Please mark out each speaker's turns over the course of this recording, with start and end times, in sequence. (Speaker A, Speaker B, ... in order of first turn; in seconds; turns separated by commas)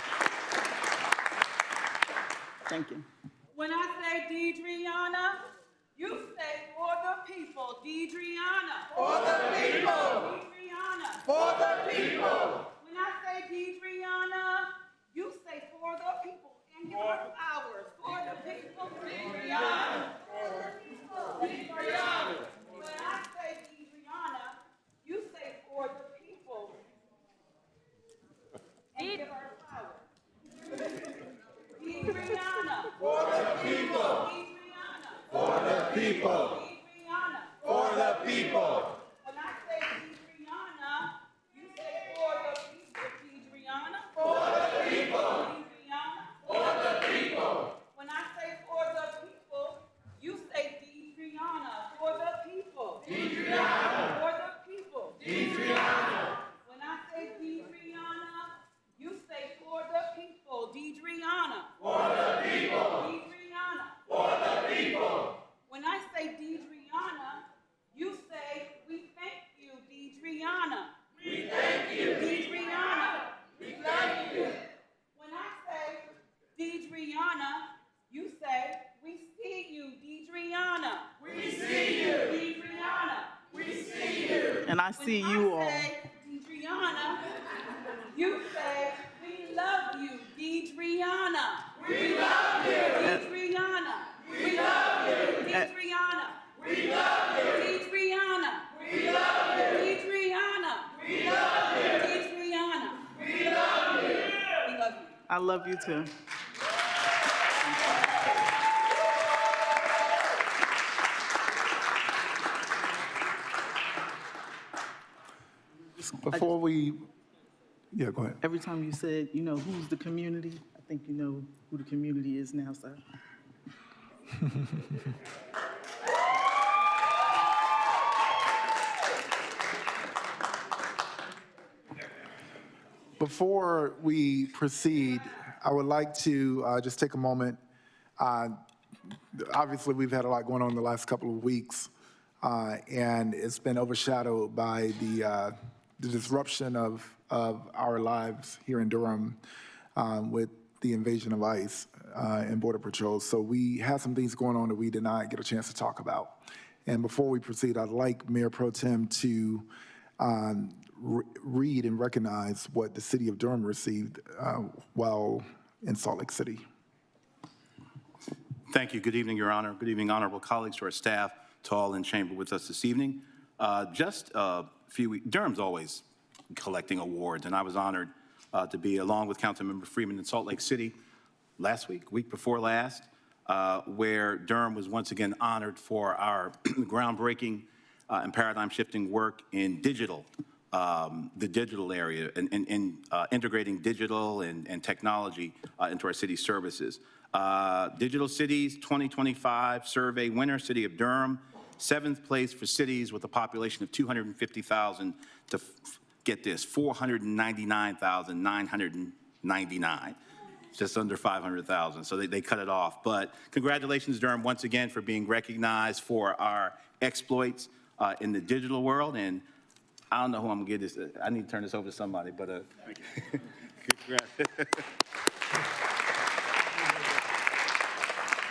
Speaker A: 2.6-3.0, Speaker B: 3.5-26.8, Speaker B: 28.9-30.1, Speaker B: 31.8-84.3, Speaker A: 84.6-85.9, Speaker B: 85.0-87.3, Speaker B: 88.0-105.2, Speaker A: 105.3-106.1, Speaker C: 116.1-117.0, Speaker C: 117.9-118.4, Speaker A: 118.4-123.0, Speaker C: 133.2-137.6, Speaker C: 138.2-138.6, Speaker C: 139.3-141.9, Speaker C: 142.4-149.4, Speaker C: 149.9-159.7, Speaker C: 160.2-166.6, Speaker D: 168.7-180.9, Speaker D: 181.6-210.2, Speaker D: 210.7-219.4, Speaker D: 220.1-224.8